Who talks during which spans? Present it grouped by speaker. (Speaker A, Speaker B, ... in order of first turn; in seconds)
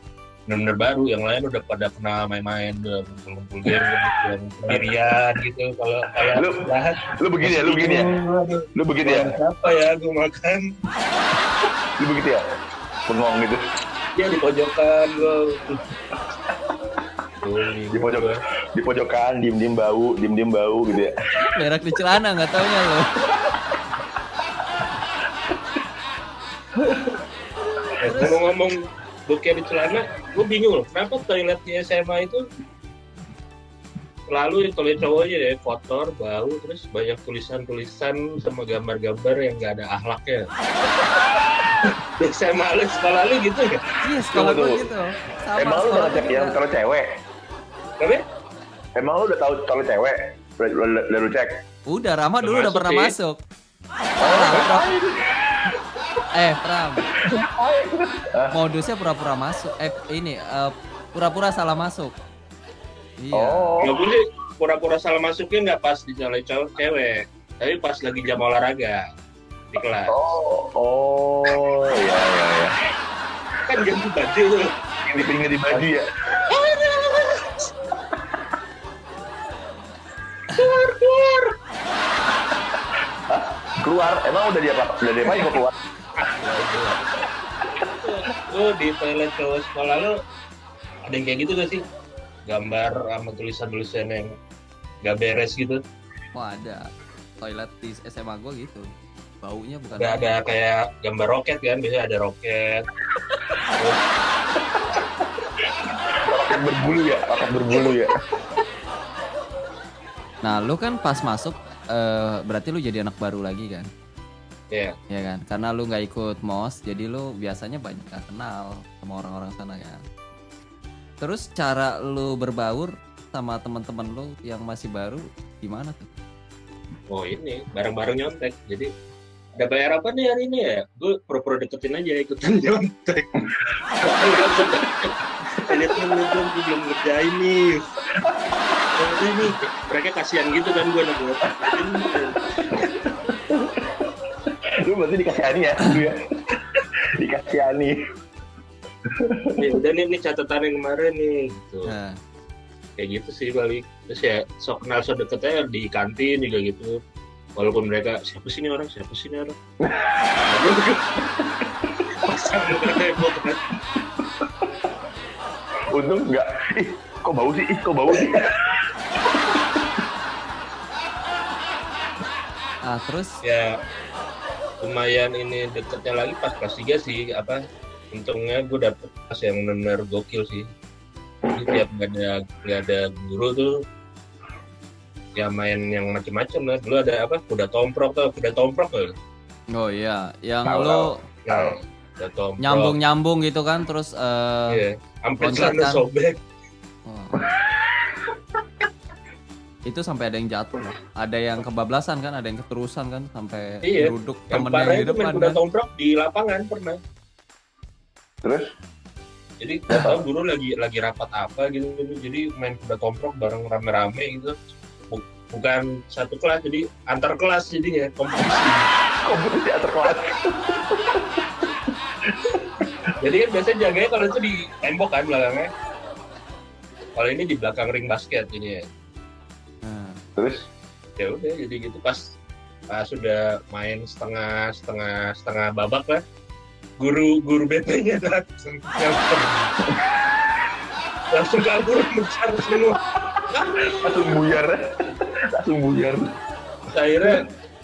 Speaker A: 0.5-10.7, 14.2-15.8, 17.4-18.4, 28.0-32.4, 34.3-41.1, 42.2-43.8, 52.4-53.1, 63.8-69.0, 69.7-70.3, 73.7-75.9, 76.4-77.7, 80.5-81.5, 86.2-87.2, 88.0-90.1, 91.1-91.8, 92.5-94.3, 95.0-95.8, 100.0-102.8, 127.1-128.9, 129.6-137.9, 138.9-143.0, 149.6-151.9, 153.0-157.0, 157.6-159.5, 160.5-161.1, 162.2-163.6, 173.4-173.8, 174.8-177.6, 178.1-180.7, 181.5-183.8, 185.4-189.1, 191.5-193.0, 194.7-196.4, 203.8-207.0, 209.6-214.5, 215.1-218.9, 223.2-225.7, 227.2-228.8, 231.2-232.3, 232.9-236.2, 237.0-239.7, 241.3-244.3, 246.9-247.5
Speaker B: 6.4-8.1, 8.8-9.3, 12.0-12.4, 13.1-13.6, 17.9-21.2, 23.3-24.0, 26.9-27.1, 44.3-44.8, 45.6-47.0, 49.0-51.6, 54.2-55.7, 57.1-58.5, 63.3-64.0, 70.1-72.7, 75.1-76.1, 83.3-85.7, 87.7-87.9, 104.6-105.2, 105.9-108.2, 134.2-134.6, 138.2-138.9, 142.6-144.1, 144.8-148.0, 149.1-149.6, 159.8-160.5, 161.3-162.0, 164.2-164.7, 165.9-169.9, 190.7-191.8, 197.5-198.1, 208.4-208.7, 209.9-210.2, 219.2-221.4, 222.3-222.9, 230.4-230.7, 239.9-240.4, 243.2-246.3
Speaker C: 21.4-23.2, 28.1-28.4, 44.0-46.6, 51.9-53.4, 54.2-55.0, 56.4-57.1, 58.5-62.1, 63.2-63.9, 96.3-96.8, 97.4-98.8, 99.4-100.3, 110.4-113.9, 115.1-120.0, 121.2-126.1, 151.9-152.2, 172.8-173.3, 189.8-191.2, 192.6-194.8, 195.4-196.1, 197.1-197.5, 199.9-205.6, 229.8-230.2